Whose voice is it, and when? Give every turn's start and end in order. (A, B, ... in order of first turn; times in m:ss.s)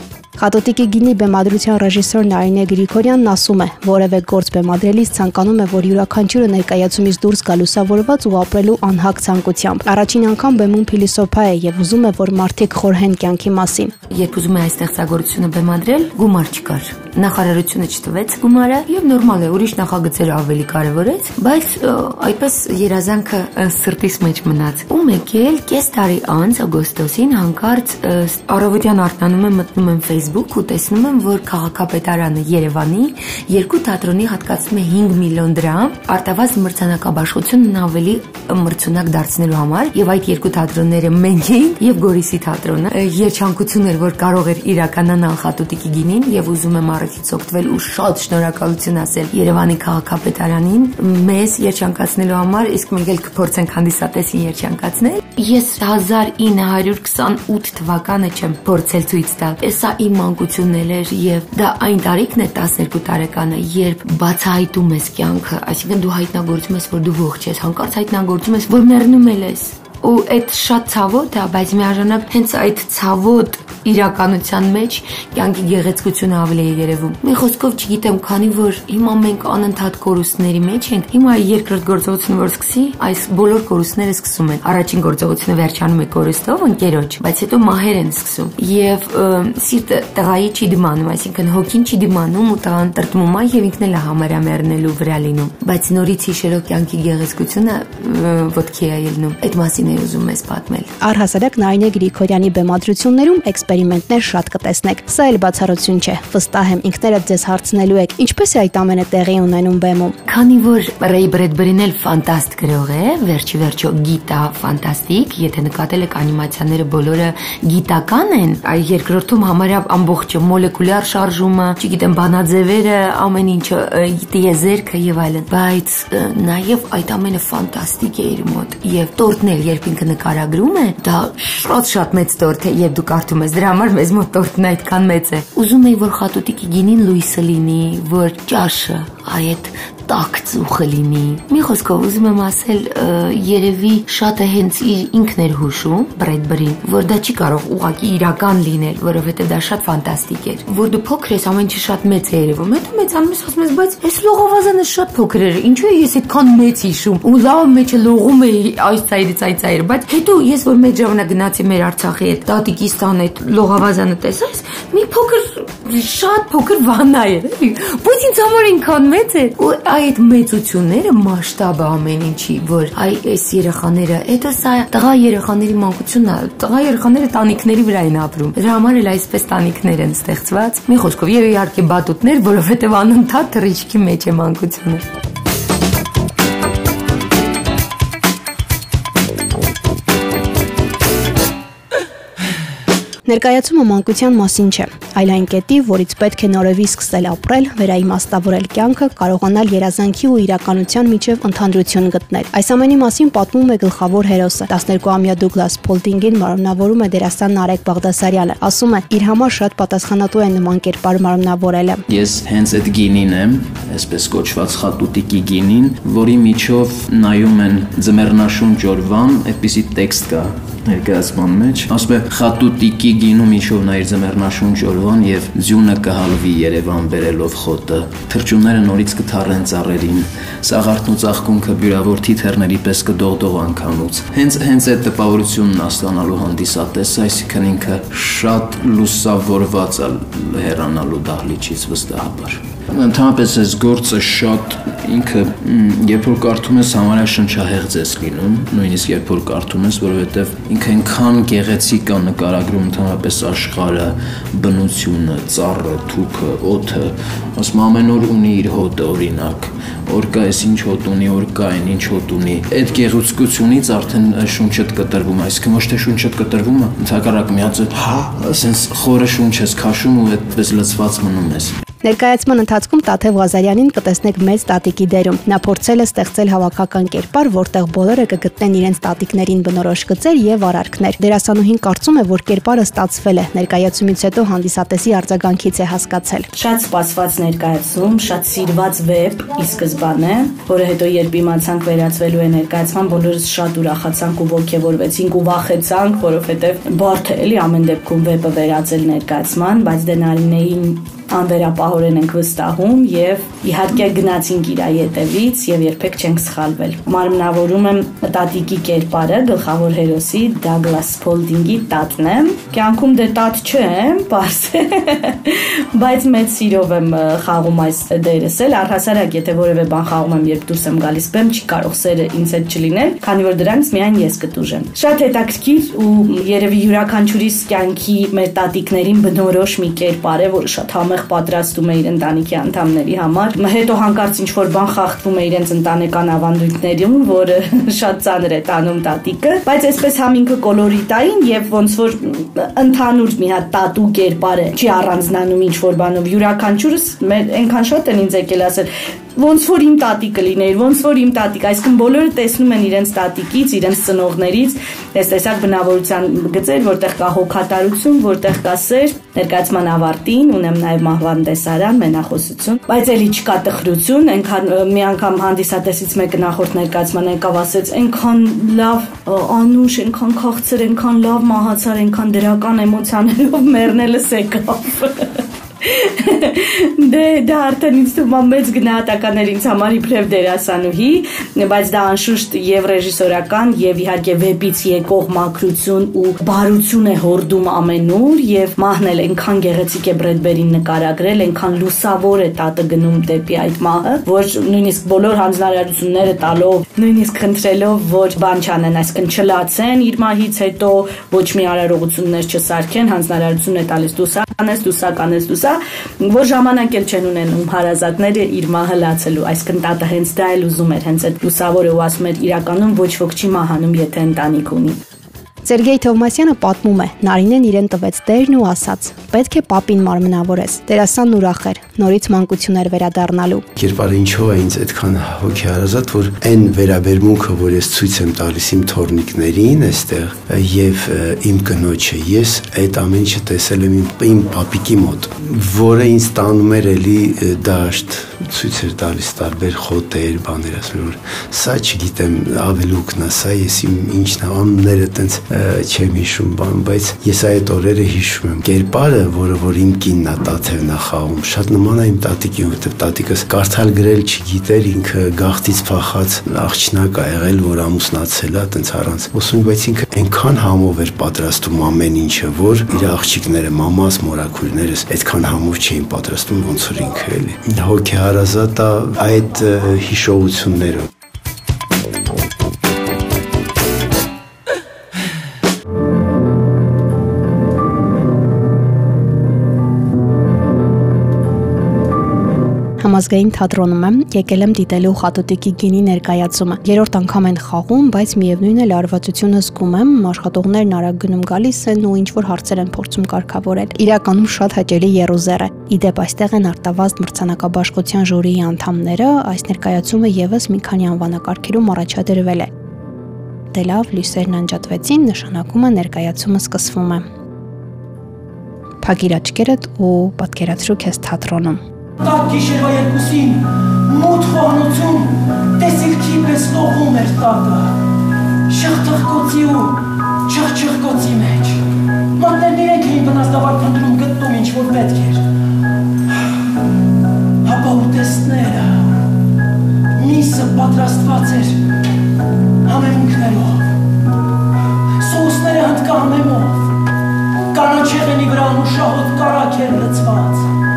0:00.4-0:13.9 A
0:14.1-1:40.9 B
1:41.0-1:50.2 A
1:50.2-3:05.0 B
3:13.2-3:32.0 A
3:32.1-4:31.7 C
4:32.0-4:46.5 A
4:46.5-6:55.0 D
6:55.6-7:03.6 A
7:03.8-7:51.1 E
8:03.0-8:22.7 A
8:23.7-8:27.2 A
8:29.0-8:31.8 A
8:32.2-8:37.9 F
8:32.4-8:33.3 C
8:34.6-8:35.0 C
8:36.4-8:37.0 C
8:38.7-8:39.9 F
8:38.7-8:39.8 C
8:40.5-8:41.6 F
8:40.5-8:41.7 C
8:42.4-8:45.4 F
8:42.7-8:43.1 C
8:43.7-8:45.1 C
8:47.6-8:48.6 F
8:48.0-8:48.9 C
8:50.2-8:50.5 F
8:50.2-8:51.6 C
8:52.9-8:53.7 C
8:55.2-8:55.6 F
8:55.5-8:56.6 C
8:56.3-8:56.8 F
8:57.8-9:00.4 C